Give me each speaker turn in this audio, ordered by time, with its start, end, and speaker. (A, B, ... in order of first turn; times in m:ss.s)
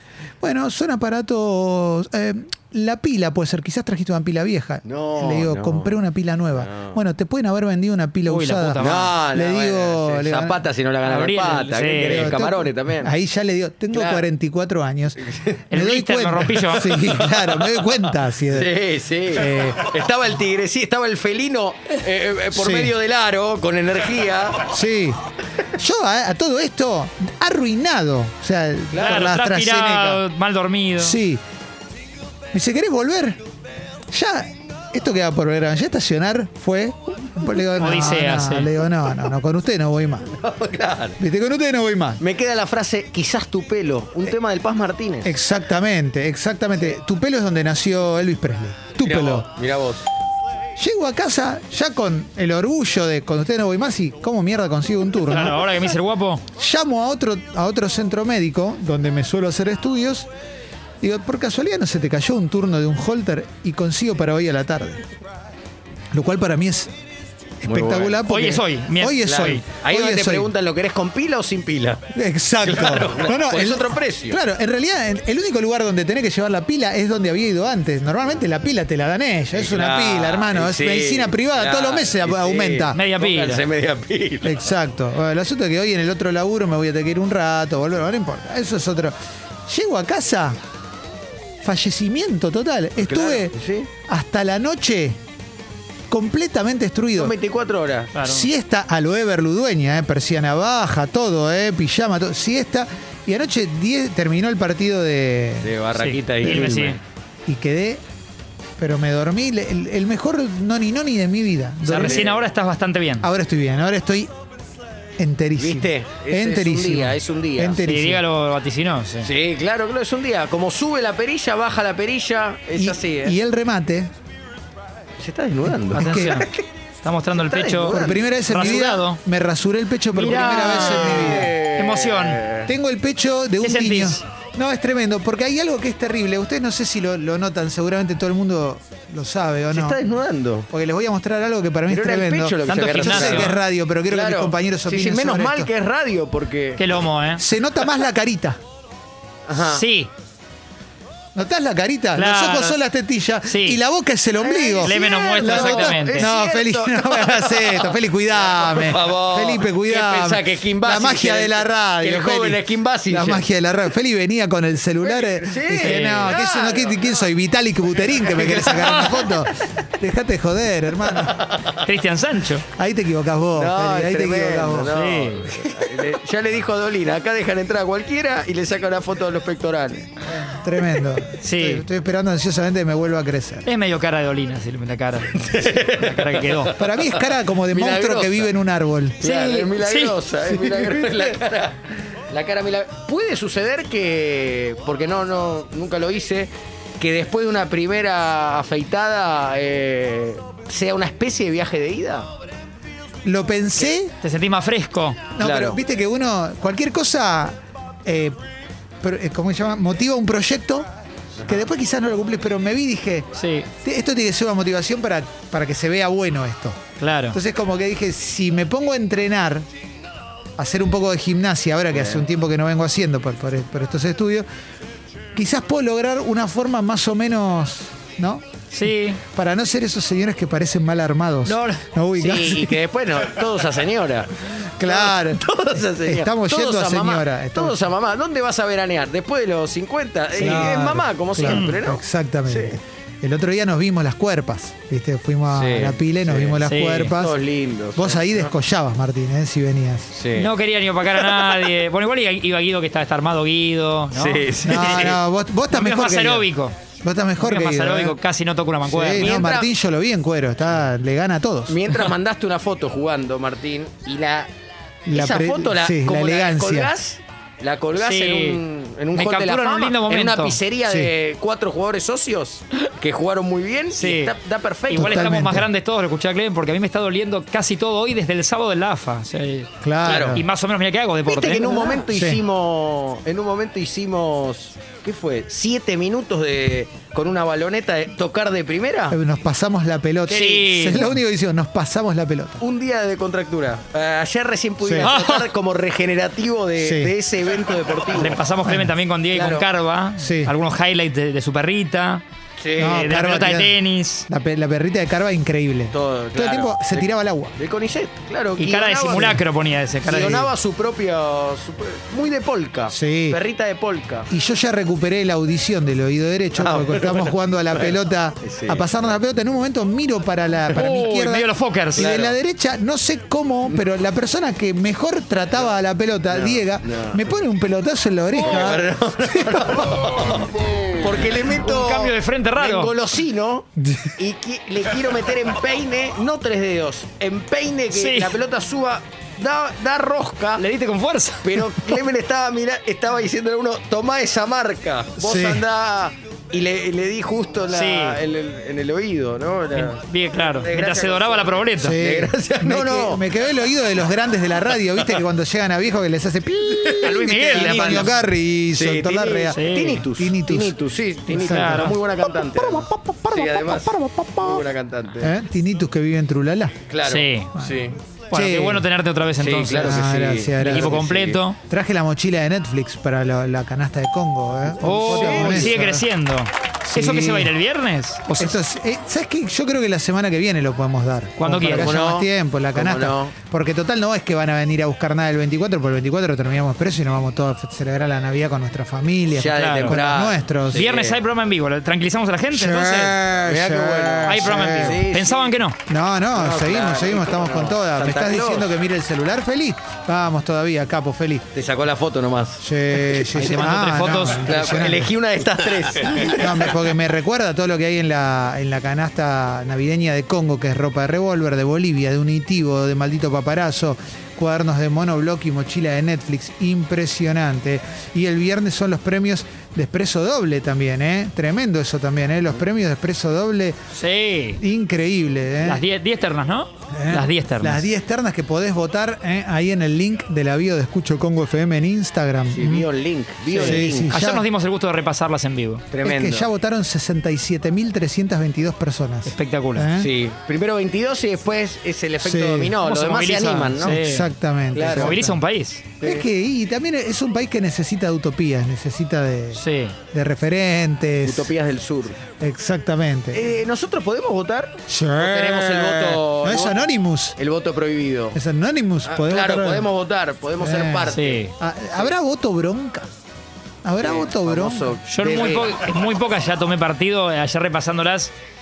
0:00.4-0:10.7 A
0:04.8-0:06.0 B
0:06.6-0:07.0 B
0:08.2-0:09.2 C
0:08.8-0:13.1 B
0:11.0-0:12.4 C
0:12.0-0:15.2 A
0:13.9-0:14.3 B
0:15.3-0:15.6 B
0:15.7-0:17.0 C
0:15.7-0:18.8 A
0:16.8-0:24.6 B
0:19.3-0:19.9 A
0:22.5-0:23.0 A
0:24.6-0:25.2 A
0:25.7-0:30.2 A
0:28.9-0:29.4 B
0:29.0-0:31.2 C
0:31.0-0:31.4 A
0:32.5-0:33.4 A
0:34.1-0:40.4 A
0:37.8-0:38.7 C
0:40.3-0:41.2 B
0:41.2-0:42.2 A
0:42.2-0:45.3 B
0:45.2-0:49.5 A
0:49.0-0:50.1 B
0:50.8-0:55.6 A
0:55.3-0:56.4 C
0:56.6-1:00.3 A
1:01.0-1:05.0 A
1:06.1-1:06.9 A
1:07.6-1:10.5 A
1:07.6-1:08.2 B
1:08.2-1:09.6 C
1:09.2-1:12.1 B
1:12.1-1:23.0 A
1:12.6-1:14.4 B
1:19.5-1:24.6 B
1:22.9-1:23.6 C
1:24.4-1:29.1 A
1:29.7-1:30.6 A
1:31.6-1:35.2 A
1:33.0-1:33.9 B
1:36.1-1:37.4 A
1:37.2-1:38.2 B
1:38.1-1:38.5 C
1:38.2-1:45.8 A
1:45.6-1:47.0 B
1:46.0-1:47.0 C
1:46.4-1:46.8 A
1:47.5-1:48.0 A
1:48.8-1:52.3 A
1:51.8-1:53.3 C
1:52.0-1:52.5 B
1:53.2-1:54.3 A
1:55.2-1:58.2 A
1:55.6-1:57.8 B
1:57.8-1:59.3 C
1:59.2-2:03.4 B
2:02.7-2:04.1 A
2:05.2-2:06.6 B
2:05.7-2:06.5 A
2:05.9-2:06.5 C
2:07.0-2:09.2 C
2:07.3-2:08.8 B
2:07.8-2:11.6 A
2:10.1-2:12.5 C
2:10.1-2:12.7 B
2:12.6-2:20.0 A
2:13.6-2:14.2 C
2:19.7-2:20.7 B
2:20.7-2:25.7 A
2:21.9-2:26.8 B
2:22.7-2:23.6 C
2:26.8-2:27.4 C
2:27.4-2:28.6 A
2:29.5-2:29.8 B
2:29.6-2:30.1 C
2:31.4-2:51.4 A
2:32.2-2:32.8 C
2:33.4-2:33.8 C
2:34.4-2:43.5 B
2:34.8-2:36.3 C
2:45.0-2:47.3 B
2:45.8-2:46.4 C
2:48.0-2:49.5 B
2:51.1-2:51.8 B
2:51.8-2:52.6 C
2:52.7-2:55.0 A
2:53.6-3:00.1 B
2:54.9-2:55.5 C
3:00.3-3:03.7 A
3:01.4-3:01.8 C
3:03.7-3:06.8 C
3:05.4-3:08.5 B
3:06.7-3:09.2 A
3:09.2-3:10.2 C
3:09.2-3:22.3 B
3:10.5-3:11.3 A
3:23.2-3:24.1 A
3:24.2-3:25.2 C
3:25.3-3:28.4 A
3:25.4-3:25.8 B
3:29.0-3:30.9 A
3:31.4-3:39.7 A
3:33.3-3:33.7 C
3:37.0-3:37.4 C
3:40.6-3:44.4 A
3:41.9-3:42.2 B
3:45.4-3:52.8 A
3:48.7-3:49.2 C
3:51.5-3:51.8 C
3:52.2-4:02.8 B
3:54.8-3:57.8 A
4:00.3-4:07.4 A
4:01.4-4:01.8 C
4:05.5-4:08.5 B
4:06.6-4:07.2 C
4:08.0-4:10.2 A
4:10.1-4:10.5 B
4:10.3-4:15.2 C
4:11.1-4:11.7 B
4:14.1-4:15.2 B
4:14.6-4:16.5 A
4:15.7-4:16.8 C
4:17.0-4:18.2 A
4:17.4-4:19.4 C
4:18.8-4:21.8 A
4:19.1-4:19.7 B
4:21.7-4:24.5 B
4:25.1-4:27.0 A
4:25.1-4:35.3 B
4:28.0-4:28.6 C
4:29.1-4:30.6 C
4:30.9-4:31.1 A
4:33.9-4:34.4 C
4:34.9-4:42.0 C
4:35.0-4:35.7 A
4:39.8-4:40.5 A
4:40.0-4:40.4 B
4:41.2-4:49.2 B
4:42.0-4:42.4 A
4:49.1-4:52.6 A
4:50.3-4:51.1 C
4:50.3-4:51.0 B
4:52.6-4:58.4 B
4:54.8-4:55.2 A
4:55.0-4:55.5 C
4:56.8-4:57.1 A
4:58.1-5:02.2 C
4:58.6-4:59.0 A
4:59.3-4:59.6 B
5:00.2-5:00.6 A
5:02.6-5:03.0 B
5:02.8-5:04.3 C
5:02.8-5:07.6 A
5:05.9-5:09.4 B
5:08.6-5:10.5 C
5:09.1-5:09.4 A
5:10.0-5:14.3 B
5:10.1-5:10.4 A
5:12.9-5:13.4 A
5:14.3-5:29.8 A
5:16.6-5:19.1 B
5:20.7-5:22.1 C
5:22.0-5:22.4 B
5:26.3-5:27.3 B
5:28.3-5:30.5 B
5:31.0-5:40.6 B
5:31.5-5:32.9 C
5:33.8-5:34.2 A
5:37.9-5:38.4 C
5:40.6-5:41.8 C
5:41.4-5:53.3 B
5:45.2-5:45.7 A
5:47.7-5:48.2 C
5:49.7-5:52.0 C
5:51.8-6:00.8 A
5:56.7-5:58.1 B
5:57.0-5:58.2 C
5:58.7-6:05.4 B
5:59.5-6:00.1 C
6:01.3-6:02.0 A
6:01.3-6:02.0 C
6:02.6-6:04.6 A
6:05.2-6:06.8 A
6:06.9-6:08.0 B
6:07.0-6:07.5 C
6:07.6-6:08.9 A
6:08.3-6:11.6 C
6:09.4-6:11.4 B
6:09.8-6:11.0 A
6:11.6-6:16.1 A
6:14.8-6:15.8 B
6:14.8-6:18.6 C
6:16.8-6:17.6 A
6:18.4-6:30.9 A
6:21.4-6:22.0 C
6:21.6-6:23.3 B
6:29.3-6:31.2 B
6:29.5-6:30.0 C
6:30.7-6:33.2 C
6:32.5-6:35.0 A
6:33.4-6:35.5 B
6:34.3-6:35.8 C
6:35.9-6:41.5 A
6:36.3-6:38.8 B
6:41.5-6:43.2 B
6:42.6-6:45.1 A
6:43.3-6:44.8 C
6:44.4-6:46.9 B
6:46.2-7:03.8 A
7:03.9-7:04.6 C
7:04.6-7:05.8 A
7:05.6-7:07.9 C
7:06.9-7:12.9 A
7:12.5-7:14.2 B
7:13.5-7:15.8 C
7:13.6-7:14.5 A
7:15.9-7:16.5 B
7:16.0-7:20.1 A
7:19.3-7:19.9 C
7:20.0-7:24.0 B
7:22.2-7:22.8 A
7:22.8-7:24.3 C
7:23.8-7:25.4 A
7:24.7-7:25.2 B
7:24.9-7:25.9 C
7:26.0-7:26.3 B
7:26.0-7:31.5 A
7:29.6-7:30.0 C
7:31.2-7:32.2 B
7:32.3-7:33.5 A
7:33.3-7:38.4 B
7:34.9-7:37.4 A
7:38.3-7:39.9 A
7:39.0-7:42.1 B
7:40.6-7:43.1 A
7:41.1-7:41.5 C
7:43.8-7:45.0 A
7:44.0-7:45.8 B
7:45.1-7:48.3 C